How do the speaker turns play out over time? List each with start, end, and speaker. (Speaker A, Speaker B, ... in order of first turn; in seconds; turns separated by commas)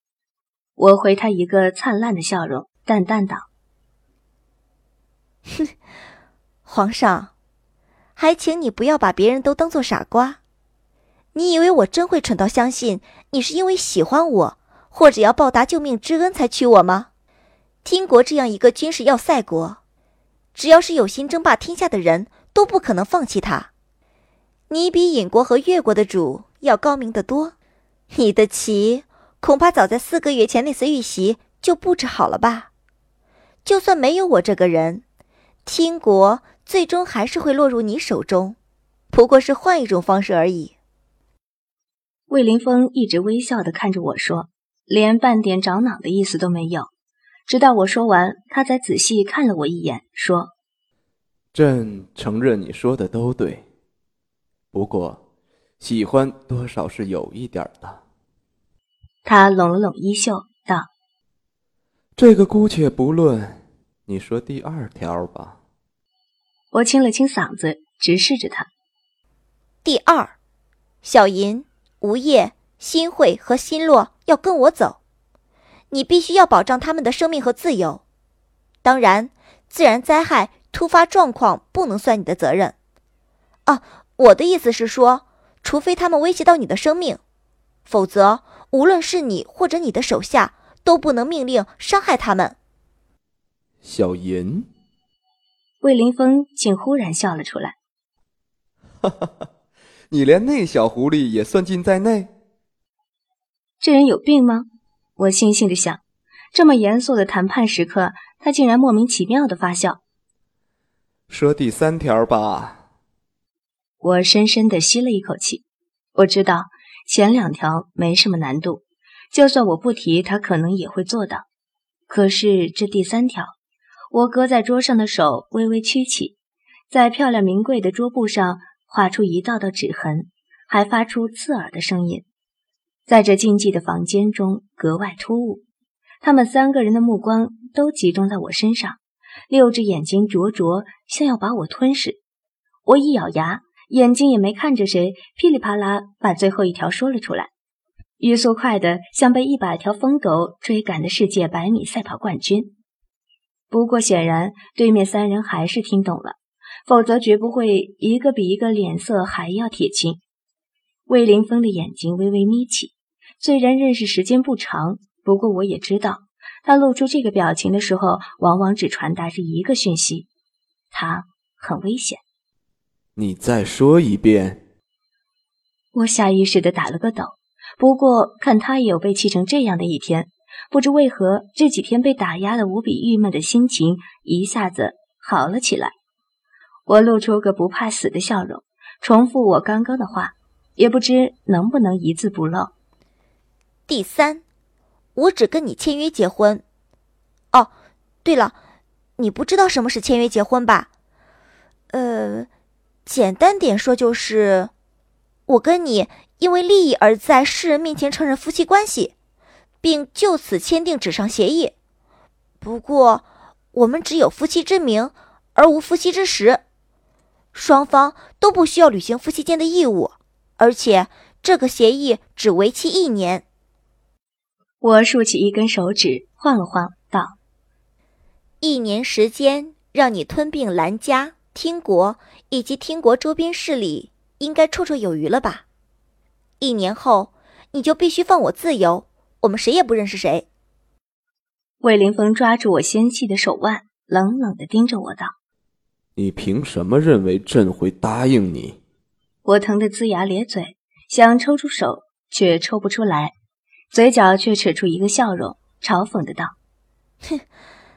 Speaker A: 0.8-3.5, Speaker B: 6.7-7.3, Speaker B: 8.2-10.4, Speaker B: 11.3-17.1, Speaker B: 17.8-19.8, Speaker B: 20.5-23.7, Speaker B: 24.7-27.5, Speaker B: 28.1-32.7, Speaker B: 33.6-35.0, Speaker B: 35.6-38.5, Speaker B: 39.1-40.7, Speaker A: 42.3-46.9, Speaker A: 47.5-50.5, Speaker C: 51.5-53.6, Speaker C: 54.7-55.2, Speaker C: 55.8-58.0, Speaker A: 59.2-60.9, Speaker C: 62.2-65.6, Speaker A: 66.7-68.7, Speaker B: 69.8-70.3, Speaker B: 71.0-75.0, Speaker B: 75.9-78.0, Speaker B: 78.8-82.7, Speaker B: 83.7-87.2, Speaker B: 87.9-92.5, Speaker C: 93.8-94.7, Speaker A: 95.8-97.8, Speaker C: 99.0-99.3, Speaker C: 100.1-102.3, Speaker A: 103.8-106.0, Speaker A: 106.5-110.0, Speaker C: 111.3-112.8, Speaker A: 114.0-115.6, Speaker A: 116.1-121.5, Speaker A: 122.1-123.5, Speaker A: 124.1-126.4, Speaker A: 126.9-132.2, Speaker A: 133.1-135.6, Speaker A: 136.2-139.0, Speaker A: 139.5-142.2, Speaker A: 142.8-147.5, Speaker A: 148.2-152.7, Speaker A: 153.7-160.2, Speaker A: 161.1-170.3, Speaker A: 170.9-172.2, Speaker C: 173.2-174.6, Speaker A: 175.9-185.9, Speaker A: 186.9-192.7, Speaker B: 193.9-194.4, Speaker B: 195.1-196.6, Speaker B: 198.2-198.5, Speaker B: 199.2-200.9, Speaker B: 201.9-202.5, Speaker B: 203.1-204.7, Speaker B: 205.5-209.1, Speaker B: 209.8-211.7, Speaker B: 212.6-216.6, Speaker B: 217.5-223.4, Speaker A: 224.8-227.3, Speaker B: 228.6-235.6, Speaker B: 236.6-240.4, Speaker A: 241.8-245.3, Speaker C: 246.2-248.8, Speaker A: 249.4-253.3, Speaker A: 253.9-256.6